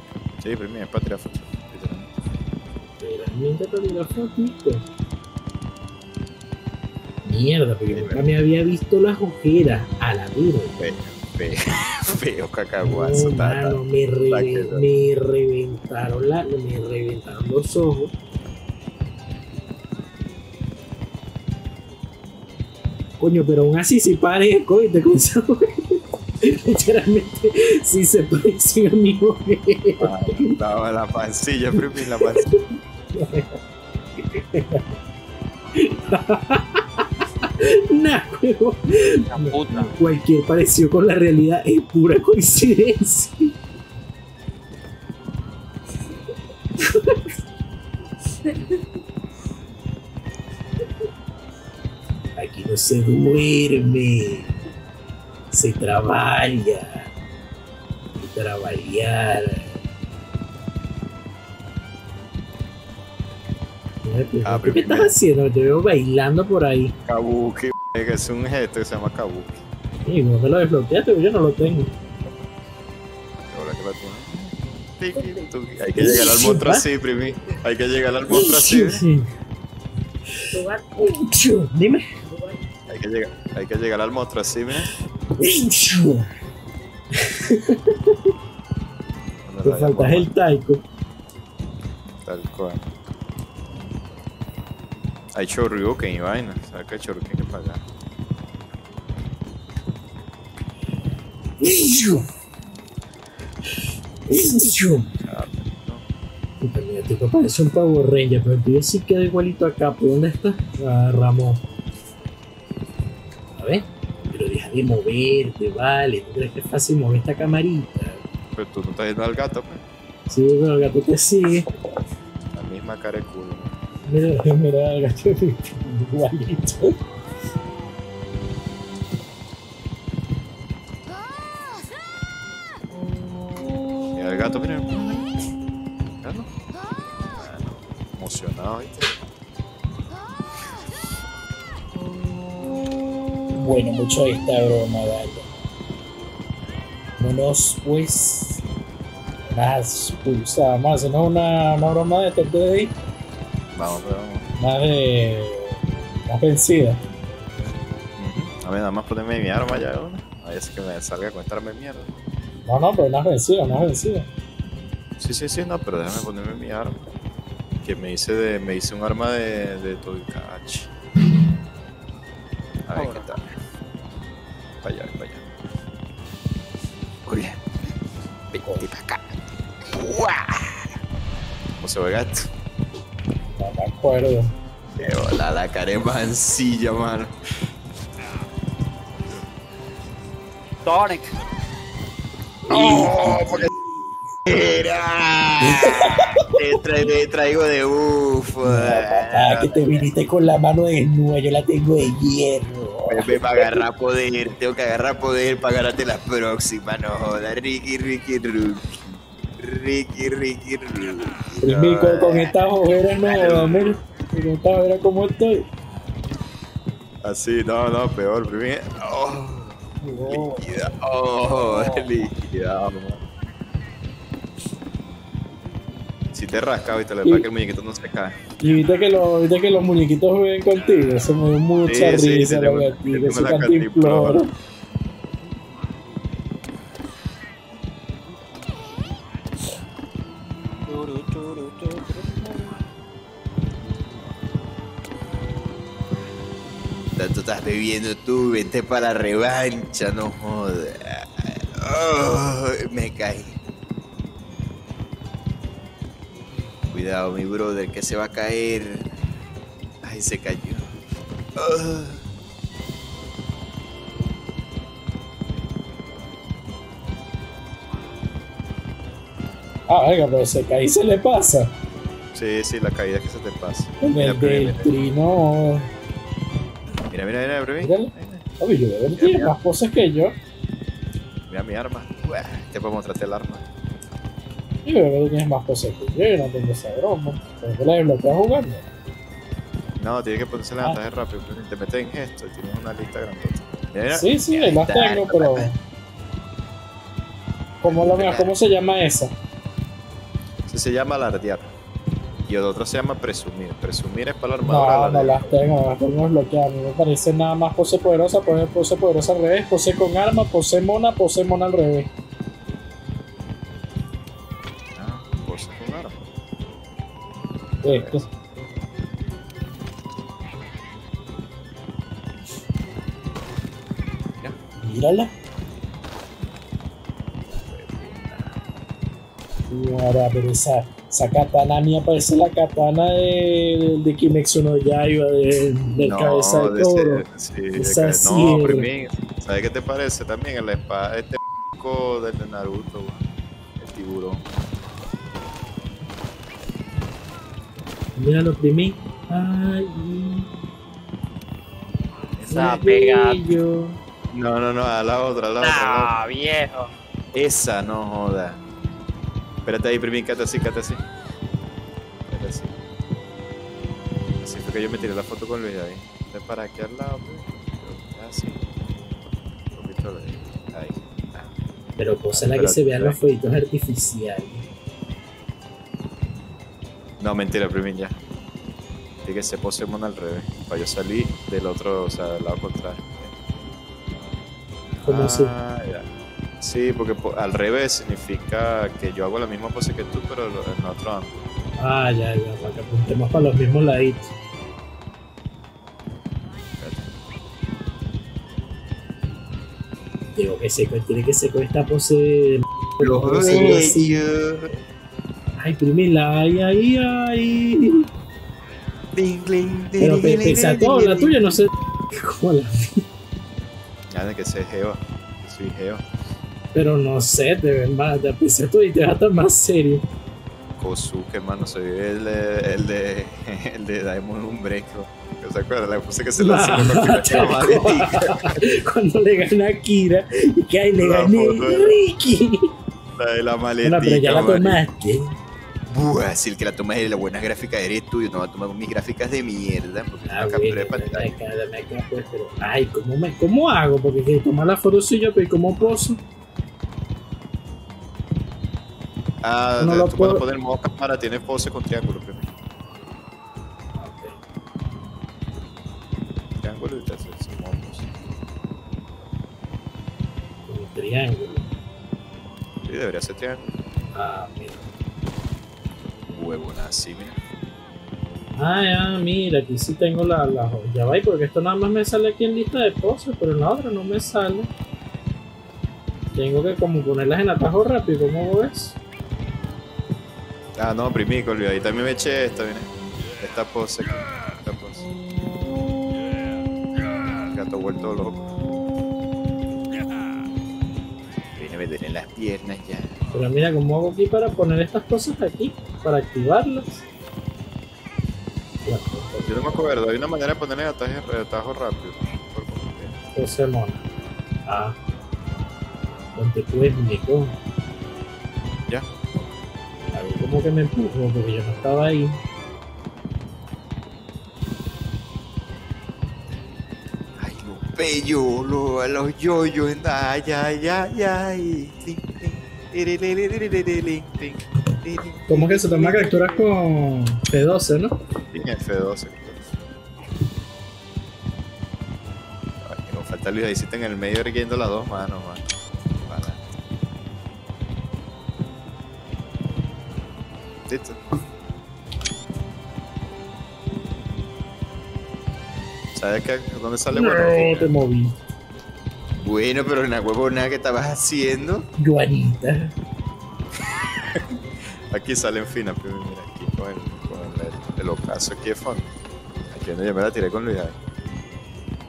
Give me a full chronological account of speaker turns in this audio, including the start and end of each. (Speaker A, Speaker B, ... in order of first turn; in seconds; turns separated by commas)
Speaker A: 0.4-2.1, Speaker B: 3.0-4.8, Speaker B: 7.2-10.8, Speaker A: 7.9-8.2, Speaker A: 10.8-14.8, Speaker B: 12.8-18.1, Speaker B: 23.2-30.5, Speaker A: 30.0-32.5, Speaker B: 32.2-33.6, Speaker B: 34.2-34.8, Speaker B: 35.7-43.5, Speaker C: 39.3-39.9, Speaker B: 46.8-47.3, Speaker B: 52.4-54.5, Speaker B: 55.5-57.1, Speaker B: 58.1-59.7, Speaker B: 64.0-66.9, Speaker A: 64.4-65.1, Speaker A: 67.0-69.6, Speaker B: 70.0-71.9, Speaker A: 73.4-79.0, Speaker B: 76.0-76.8, Speaker B: 78.3-79.3, Speaker B: 80.3-82.6, Speaker A: 82.9-84.9, Speaker B: 85.4-86.3, Speaker B: 87.2-88.2, Speaker A: 89.5-90.3, Speaker B: 89.6-90.8, Speaker A: 92.2-92.9, Speaker A: 95.3-97.8, Speaker B: 101.6-102.3, Speaker B: 104.3-105.1, Speaker A: 105.2-106.0, Speaker B: 106.6-111.6, Speaker B: 113.5-118.2, Speaker A: 118.5-119.8, Speaker B: 120.3-121.7, Speaker A: 122.5-123.7, Speaker B: 124.1-127.0, Speaker A: 134.1-135.3, Speaker A: 136.2-136.5, Speaker A: 137.3-139.2, Speaker B: 143.5-145.5, Speaker B: 147.2-148.6, Speaker B: 149.5-152.9, Speaker A: 153.7-154.5, Speaker B: 154.6-157.0, Speaker A: 158.2-162.1, Speaker B: 162.7-164.3, Speaker A: 165.2-167.0, Speaker A: 167.8-170.9, Speaker A: 172.8-173.5, Speaker C: 172.9-173.3, Speaker A: 174.8-175.4, Speaker A: 177.2-177.7, Speaker A: 178.5-181.0, Speaker B: 178.6-178.8, Speaker A: 181.8-182.5, Speaker B: 183.6-184.5, Speaker A: 185.0-187.3, Speaker C: 190.8-191.3, Speaker B: 192.7-193.6, Speaker A: 192.7-193.7, Speaker A: 194.4-200.1, Speaker B: 195.6-196.3, Speaker B: 198.6-203.8, Speaker A: 203.1-212.5, Speaker B: 211.6-215.7, Speaker A: 213.2-214.0, Speaker A: 217.2-223.2, Speaker B: 220.0-220.7, Speaker C: 221.7-222.0, Speaker A: 226.3-228.4, Speaker B: 228.6-234.5, Speaker A: 231.8-234.4, Speaker C: 240.9-242.8, Speaker A: 247.1-253.6, Speaker A: 256.9-259.1, Speaker A: 260.0-260.9, Speaker A: 261.5-262.3, Speaker B: 269.9-271.7, Speaker A: 272.3-274.9, Speaker B: 274.0-275.9, Speaker A: 277.1-278.4, Speaker B: 277.8-280.3, Speaker A: 279.1-279.5, Speaker A: 281.4-283.6, Speaker B: 284.8-288.8, Speaker A: 290.0-295.7, Speaker B: 294.1-295.7, Speaker B: 297.8-299.3, Speaker A: 297.8-298.5, Speaker A: 300.7-301.7, Speaker A: 302.4-305.4, Speaker B: 304.6-312.1, Speaker A: 314.9-316.2, Speaker B: 317.8-318.2, Speaker A: 317.8-318.3, Speaker B: 324.8-325.3, Speaker A: 327.4-328.6, Speaker B: 329.7-338.9, Speaker A: 336.0-343.2, Speaker A: 343.8-344.4, Speaker B: 348.2-350.5, Speaker A: 352.4-352.8, Speaker B: 352.4-354.0, Speaker C: 352.5-353.4, Speaker A: 354.3-356.1, Speaker C: 355.6-356.9, Speaker A: 357.3-358.6, Speaker A: 359.6-361.0, Speaker A: 362.3-362.8, Speaker A: 364.4-368.6, Speaker A: 369.7-371.5, Speaker B: 372.0-374.6, Speaker A: 372.3-373.2, Speaker A: 377.2-378.2, Speaker A: 379.2-383.4, Speaker B: 385.0-385.5, Speaker A: 385.0-386.1, Speaker A: 386.6-391.4, Speaker B: 391.8-394.3, Speaker A: 396.8-397.1, Speaker B: 400.3-404.1, Speaker A: 403.0-404.7, Speaker B: 405.6-408.0, Speaker A: 409.1-411.6, Speaker B: 410.0-413.0, Speaker A: 414.1-416.0, Speaker B: 416.7-420.0, Speaker A: 420.8-428.5, Speaker B: 426.4-432.7, Speaker A: 431.0-431.9, Speaker A: 433.1-434.8, Speaker B: 433.8-435.3, Speaker A: 435.9-441.4, Speaker B: 440.2-446.2, Speaker A: 449.4-452.5, Speaker B: 449.8-450.4, Speaker B: 454.0-454.3, Speaker A: 456.6-458.1, Speaker B: 460.7-461.7, Speaker A: 462.8-463.7, Speaker B: 464.1-464.9, Speaker A: 466.3-467.4, Speaker B: 468.6-474.7, Speaker B: 476.3-479.0, Speaker A: 480.8-485.1, Speaker A: 487.4-488.4, Speaker A: 491.6-493.2, Speaker B: 493.3-497.0, Speaker B: 498.9-499.9, Speaker A: 499.4-503.1, Speaker B: 503.3-504.0, Speaker B: 504.7-504.9, Speaker B: 506.3-507.6, Speaker B: 510.1-512.4, Speaker A: 517.4-526.6, Speaker B: 525.5-528.1, Speaker A: 528.5-529.7, Speaker A: 532.8-535.6, Speaker A: 536.2-536.6, Speaker A: 540.9-541.2, Speaker A: 546.1-547.9, Speaker B: 547.1-548.4, Speaker A: 549.4-551.9, Speaker B: 552.0-552.9, Speaker A: 554.2-559.1, Speaker A: 559.7-561.0